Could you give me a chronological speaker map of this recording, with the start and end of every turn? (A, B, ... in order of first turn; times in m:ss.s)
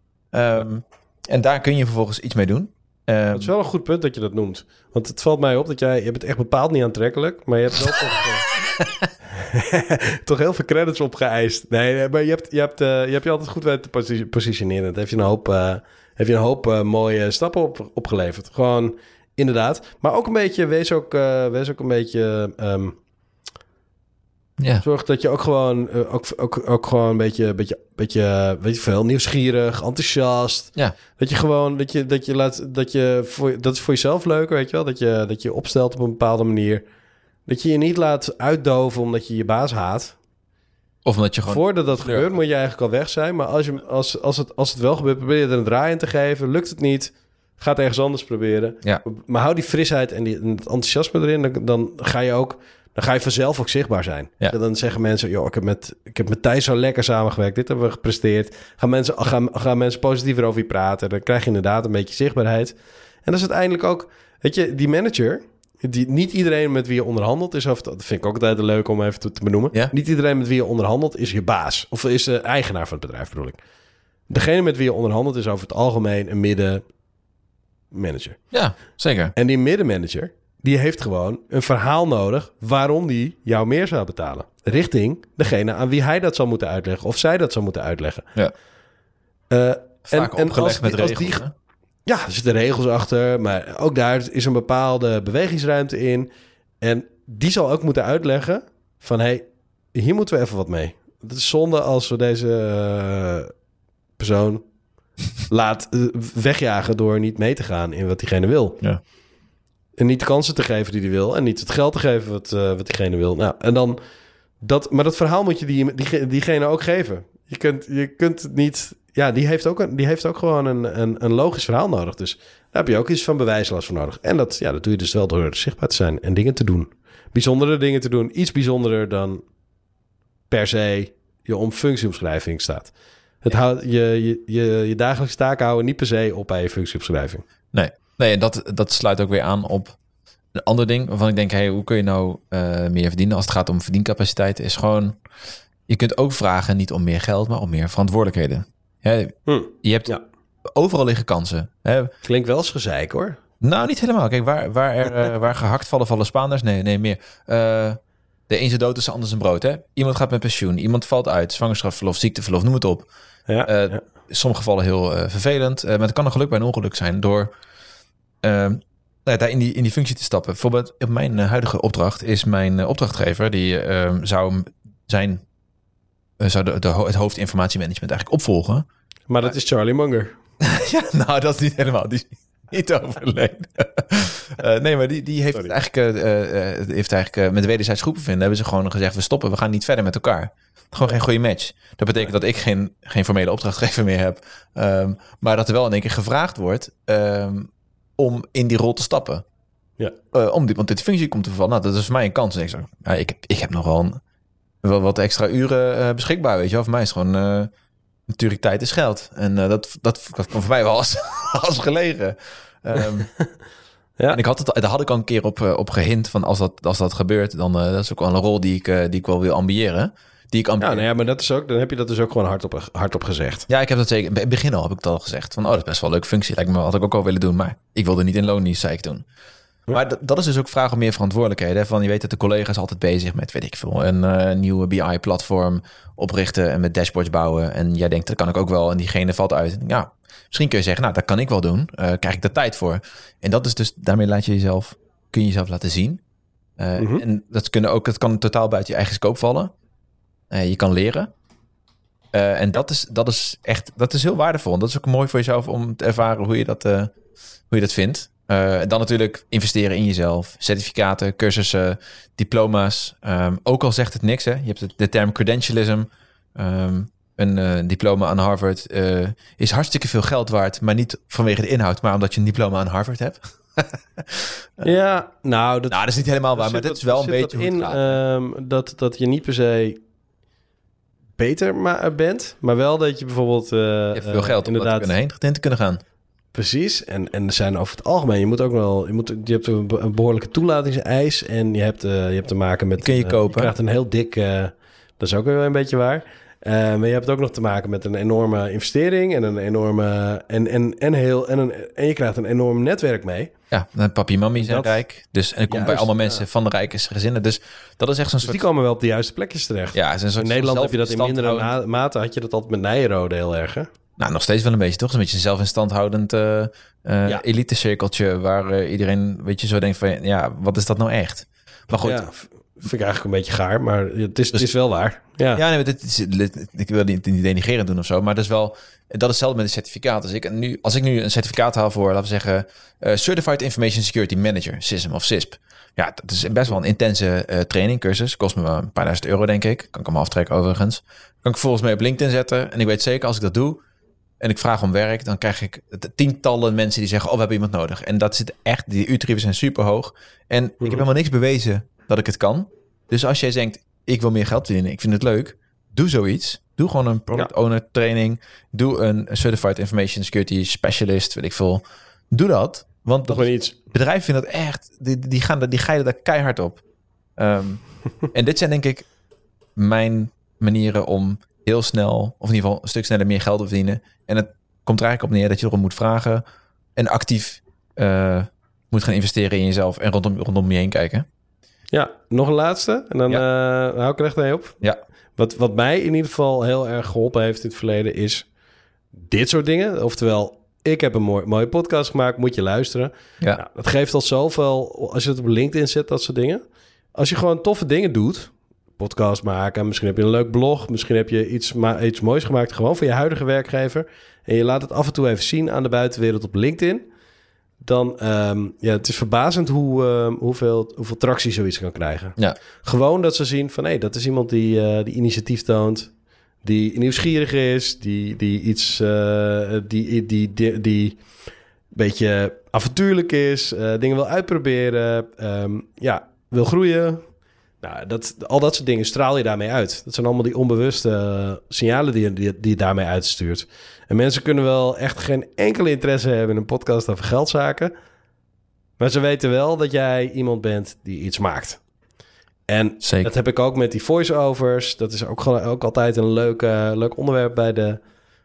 0:00.3-0:03.5 A
0:03.3-0:08.5 B
0:08.8-0:09.0 A
0:09.3-0:23.0 B
0:24.6-0:24.8 A
0:24.8-0:36.8 B
0:37.4-0:40.2 B
0:41.0-0:42.3 A
0:41.4-1:13.6 B
1:14.3-1:16.8 B
1:17.9-1:18.4 B
1:18.5-1:19.3 A
1:19.3-1:28.3 B
1:29.5-1:31.4 B
1:30.1-1:31.5 A
1:32.0-1:36.3 B
1:36.8-1:43.5 B
1:44.2-1:44.6 B
1:45.5-1:48.8 B
1:50.0-1:54.0 B
1:54.6-2:09.4 B
2:10.5-2:17.4 B
2:17.7-2:20.0 A
2:20.5-2:25.2 A
2:25.9-2:30.1 A
2:29.4-2:30.2 B
2:30.6-2:32.1 A
2:32.2-2:33.4 B
2:33.6-2:43.1 A
2:43.5-2:44.0 B
2:43.6-2:47.5 A
2:48.4-2:55.4 A
2:56.4-2:58.8 A
2:59.3-3:00.3 B
3:00.6-3:19.4 A
3:20.3-3:24.2 A
3:24.8-3:27.7 A
3:28.3-3:33.3 A
3:34.3-3:41.0 A
3:40.8-3:43.7 B
3:43.7-3:49.2 A
3:49.9-4:06.2 A
4:06.8-4:09.7 A
4:07.0-4:07.2 B
4:10.5-4:11.3 A
4:12.3-4:17.1 A
4:17.7-4:34.9 A
4:34.8-4:36.0 B
4:35.9-4:38.2 A
4:36.6-4:40.0 B
4:41.4-4:45.1 B
4:44.1-4:46.0 A
4:46.5-5:03.5 B
4:53.0-4:53.7 A
5:03.7-5:08.6 A
5:04.6-5:05.0 B
5:05.7-5:06.4 B
5:08.4-5:13.9 B
5:09.9-5:11.7 A
5:14.2-5:22.2 A
5:22.0-5:25.6 B
5:25.5-5:43.8 A
5:44.4-6:06.8 A
6:03.3-6:03.7 B
6:07.4-6:09.0 A
6:09.8-6:16.4 A
6:17.0-6:21.2 A
6:21.9-6:24.8 B
6:25.4-6:28.5 B
6:29.2-6:36.6 B
6:37.1-6:47.0 B
6:47.8-6:56.1 B
6:56.6-7:01.2 B
7:01.9-7:07.2 B
7:07.8-7:17.9 B
7:19.0-7:21.8 B
7:22.7-7:28.0 B
7:23.0-7:23.3 A